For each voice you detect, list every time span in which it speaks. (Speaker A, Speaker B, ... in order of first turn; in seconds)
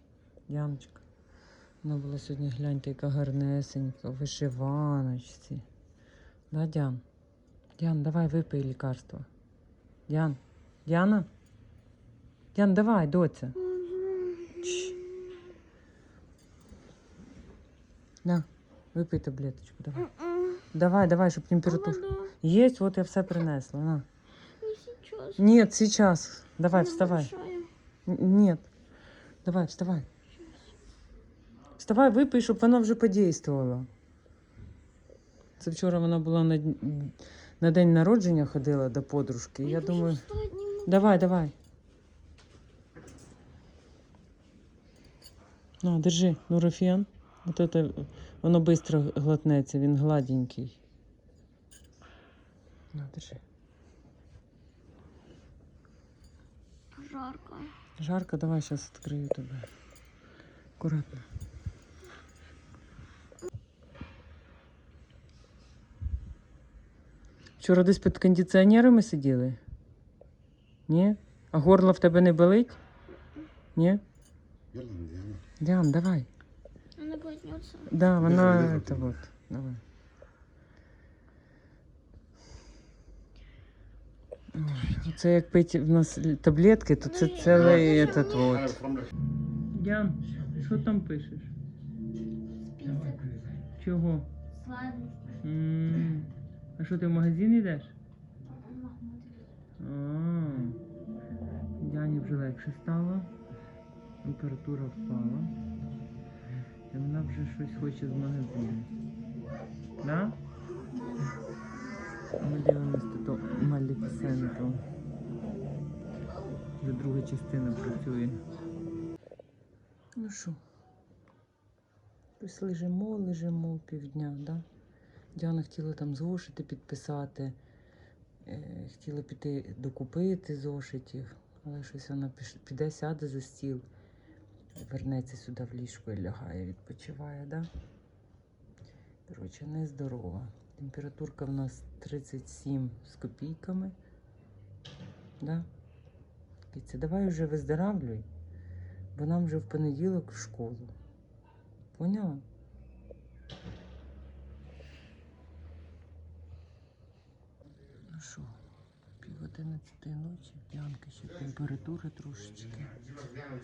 Speaker A: 0.5-1.0, 1.8-5.6, 6.5-7.0, 7.8-9.3, 10.1-11.3, 12.5-13.6, 14.6-15.0, 18.2-20.1, 20.7-24.1, 25.4-27.4, 28.1-28.7, 29.4-30.1, 31.8-33.9, 35.6-40.3, 40.8-41.5, 45.8-50.8, 52.9-53.4, 58.0-59.7, 60.8-61.2, 67.6-69.6, 70.9-72.8, 73.8-74.0, 75.6-76.3, 77.9-79.8, 84.5-88.8, 89.7-91.5, 93.8-94.3, 95.4-97.9, 99.8-100.8, 101.8-103.3, 104.2-105.5, 106.9-108.9, 110.0-110.4, 112.4-114.8, 116.8-118.4, 120.2-120.6, 122.4-124.6, 125.4-127.6, 128.5-133.8, 134.8-137.7, 139.3-143.9, 145.4-145.7, 146.7-148.3, 149.1-150.9, 151.9-152.4, 158.1-158.5, 159.2-163.2
Speaker B: 13.8-14.5, 21.7-22.2, 24.6-25.4, 26.7-27.7, 39.6-41.1, 57.0-57.7, 77.0-77.8